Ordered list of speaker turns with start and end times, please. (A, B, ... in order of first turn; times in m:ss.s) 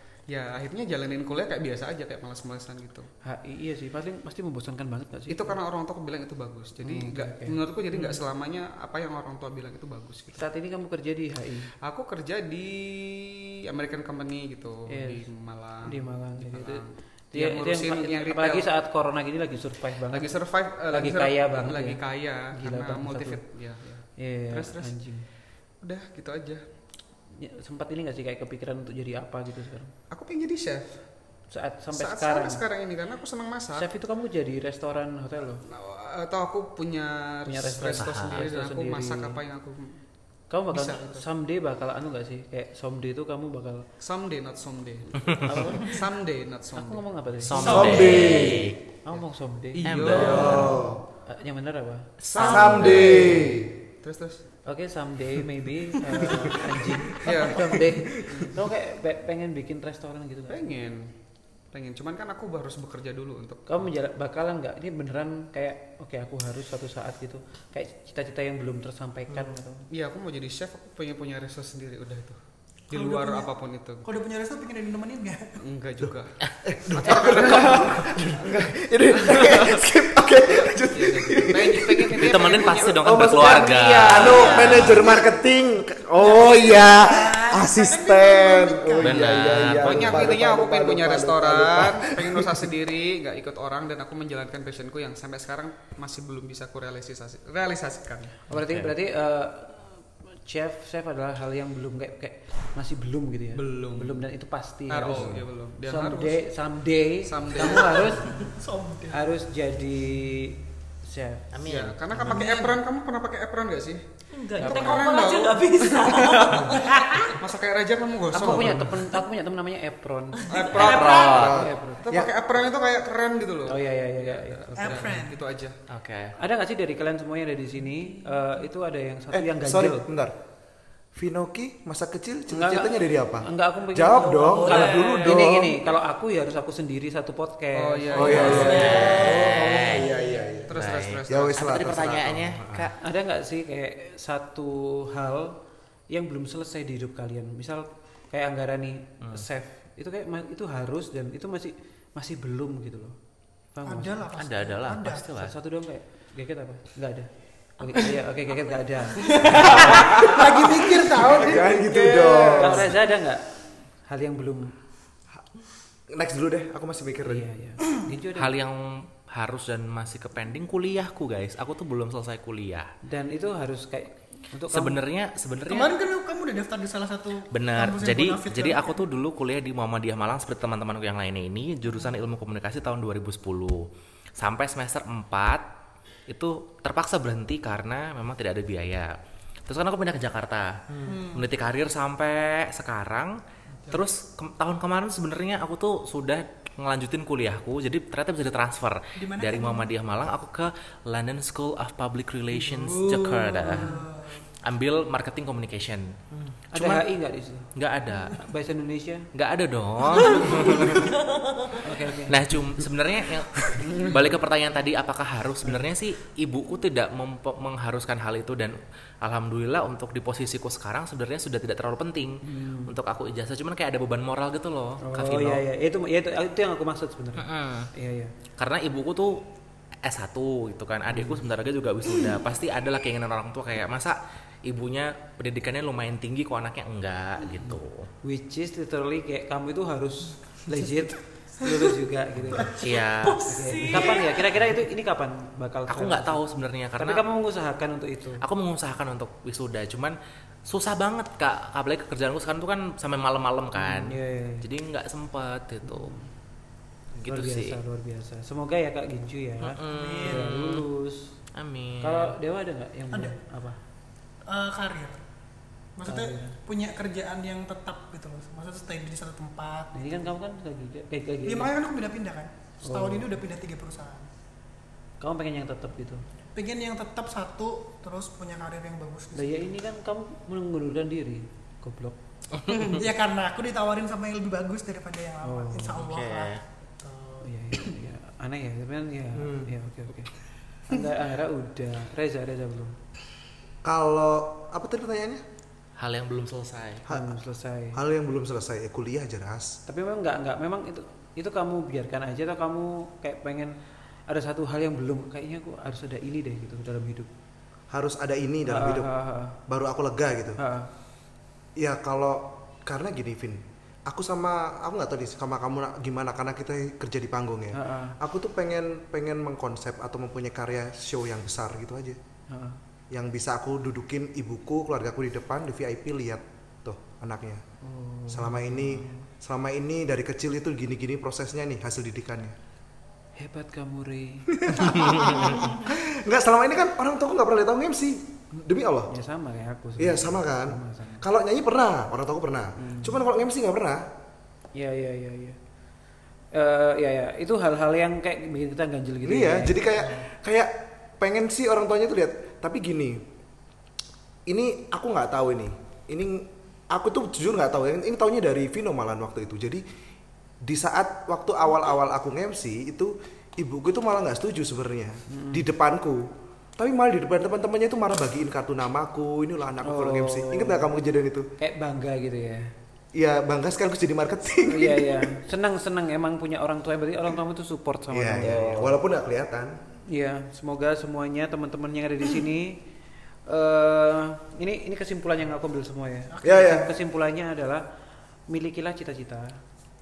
0:00.3-0:03.1 A
0:03.2-0:05.6 B
0:05.3-0:10.4 A
0:06.8-0:08.2 B
0:10.4-0:11.7 B
0:11.8-0:18.7 A
0:14.9-0:15.3 B
0:15.8-0:20.3 B
0:20.1-0:25.0 A
0:20.9-0:22.0 B
0:22.5-0:23.4 B
0:24.2-0:25.3 B
0:25.8-0:26.6 A
0:27.4-0:29.9 B
0:30.1-0:31.0 A
0:31.5-0:32.6 B
0:31.9-0:33.9 A
0:33.8-0:35.6 B
0:35.6-0:40.0 A
0:37.5-0:39.4 B
0:37.8-0:38.5 C
0:40.5-0:43.9 B
0:40.7-0:41.2 A
0:44.0-0:47.0 A
0:45.3-0:46.0 B
0:46.7-0:48.3 B
0:47.4-0:48.8 C
0:47.6-0:48.7 D
0:47.6-0:48.5 E
0:49.0-0:50.7 B
0:49.7-0:50.8 A
0:49.8-0:50.7 C
0:50.1-0:51.0 D
0:51.2-0:52.1 B
0:52.2-0:53.5 C
0:52.3-0:53.7 D
0:52.4-0:54.4 A
0:54.6-1:00.7 B
0:56.2-0:58.5 D
0:57.2-0:57.7 A
0:58.3-0:58.6 A
1:00.5-1:01.1 A
1:01.7-1:03.6 A
1:03.7-1:09.8 B
1:09.9-1:12.4 A
1:12.9-1:14.0 A
1:12.9-1:13.5 E
1:14.0-1:15.6 E
1:15.6-1:16.4 A
1:16.0-1:32.7 D
1:16.9-1:19.8 A
1:20.9-1:25.0 A
1:22.2-1:25.1 C
1:24.2-1:24.9 E
1:26.2-1:29.6 E
1:29.0-1:30.1 C
1:29.7-1:38.3 A
1:38.5-1:48.4 B
1:38.5-1:38.9 C
1:43.5-1:44.2 A
1:44.9-1:46.4 A
1:47.2-1:48.3 A
1:48.3-1:49.2 E
1:49.1-1:51.5 B
1:51.5-1:52.4 C
1:51.6-1:54.0 A
1:52.3-1:52.8 E
1:54.3-1:57.4 F
1:54.6-1:55.0 B
1:54.6-1:59.0 A
1:58.3-2:00.7 B
1:58.6-1:58.9 C
2:00.3-2:01.5 F
2:00.5-2:05.8 A
2:00.7-2:01.6 C
2:01.2-2:02.3 D
2:01.5-2:02.0 B
2:03.7-2:05.2 B
2:04.8-2:05.4 E
2:05.9-2:06.4 C
2:06.4-2:10.1 B
2:08.1-2:08.4 F
2:09.3-2:10.4 D
2:11.1-2:15.8 D
2:12.5-2:19.0 B
2:14.1-2:15.2 F
2:14.7-2:15.1 A
2:17.7-2:19.1 A
2:18.1-2:20.7 D
2:18.3-2:20.6 F
2:18.4-2:20.1 C
2:20.7-2:21.8 A
2:20.7-2:22.9 C
2:21.3-2:22.9 D
2:23.0-2:25.6 B
2:26.1-2:33.2 B
2:33.7-2:34.2 B
2:33.8-2:35.2 E
2:34.4-2:35.5 C
2:35.4-2:40.2 B
2:37.8-2:38.6 F
2:39.4-2:42.5 E
2:39.6-2:43.0 D
2:41.8-2:42.7 A
2:42.6-2:44.7 B
2:46.1-2:47.5 D
2:47.2-2:48.5 B
2:48.3-2:52.9 C
2:53.0-2:55.0 B
2:54.7-2:55.9 C
2:55.7-2:59.0 E
2:57.5-3:03.9 C
3:04.4-3:05.6 C
3:06.3-3:09.1 C
3:09.7-3:23.9 C
3:11.0-3:11.5 E
3:19.2-3:19.9 E
3:22.5-3:24.4 E
3:23.6-3:24.0 B
3:24.6-3:26.1 C
3:26.7-3:27.7 B
3:26.8-3:27.0 C
3:27.7-3:28.4 C
3:28.4-3:29.3 B
3:29.3-3:31.2 C
3:30.1-3:31.1 E
3:31.2-3:31.8 F
3:31.8-3:32.4 B
3:32.3-3:45.6 C
3:42.4-3:42.9 B
3:45.0-3:48.3 B
3:47.4-3:47.9 C
3:48.6-3:49.4 C
3:50.0-3:58.1 C
3:51.1-3:51.4 B
3:57.5-4:02.8 B
4:02.7-4:04.1 C
4:03.2-4:04.5 F
4:03.4-4:06.4 B
4:05.9-4:07.2 C
4:07.0-4:08.4 B
4:08.4-4:16.1 C
4:13.7-4:14.6 B
4:15.8-4:16.3 B
4:17.1-4:17.8 C
4:17.3-4:21.3 B
4:19.6-4:20.9 C
4:19.8-4:20.5 E
4:21.5-4:22.3 C
4:22.0-4:23.8 B
4:24.5-4:25.2 E
4:26.0-4:30.3 E
4:26.0-4:26.6 B
4:29.9-4:31.7 B
4:31.4-4:34.3 E
4:32.8-4:33.3 B
4:35.2-4:36.2 B
4:36.5-4:39.6 E
4:39.3-4:42.2 B
4:42.6-4:43.0 C
4:42.7-4:47.9 E
4:45.4-4:46.0 B
4:46.0-4:46.6 C
4:47.4-4:50.3 B
4:49.3-4:49.7 D
4:50.9-4:53.0 B
4:53.8-4:55.4 D
4:56.0-4:57.1 C
4:57.1-4:58.0 B
4:57.9-4:59.8 D
4:59.9-5:03.7 B
5:04.3-5:07.3 B
5:07.9-5:09.1 D
5:08.6-5:09.6 B
5:09.6-5:10.6 D
5:10.6-5:10.9 B
5:11.8-5:22.2 D
5:17.7-5:18.2 B
5:22.5-5:22.8 B
5:23.1-5:27.6 D
5:27.8-5:29.3 B
5:28.3-5:32.6 D
5:33.4-5:34.6 B
5:34.5-5:39.1 D
5:39.1-5:41.2 B
5:40.0-5:44.1 D
5:42.8-5:43.2 B
5:44.7-5:45.6 B
5:46.5-5:49.8 B
5:49.2-5:53.2 D
5:54.5-5:59.8 D
6:00.6-6:11.5 D
6:05.3-6:05.6 B
6:09.8-6:10.9 B
6:11.6-6:12.7 B
6:13.1-6:15.3 D
6:14.6-6:18.8 B
6:18.1-6:19.8 D
6:18.4-6:18.9 C
6:20.1-6:22.8 B
6:23.5-6:27.8 B
6:26.3-6:26.8 E
6:26.4-6:26.9 D
6:28.5-6:29.6 B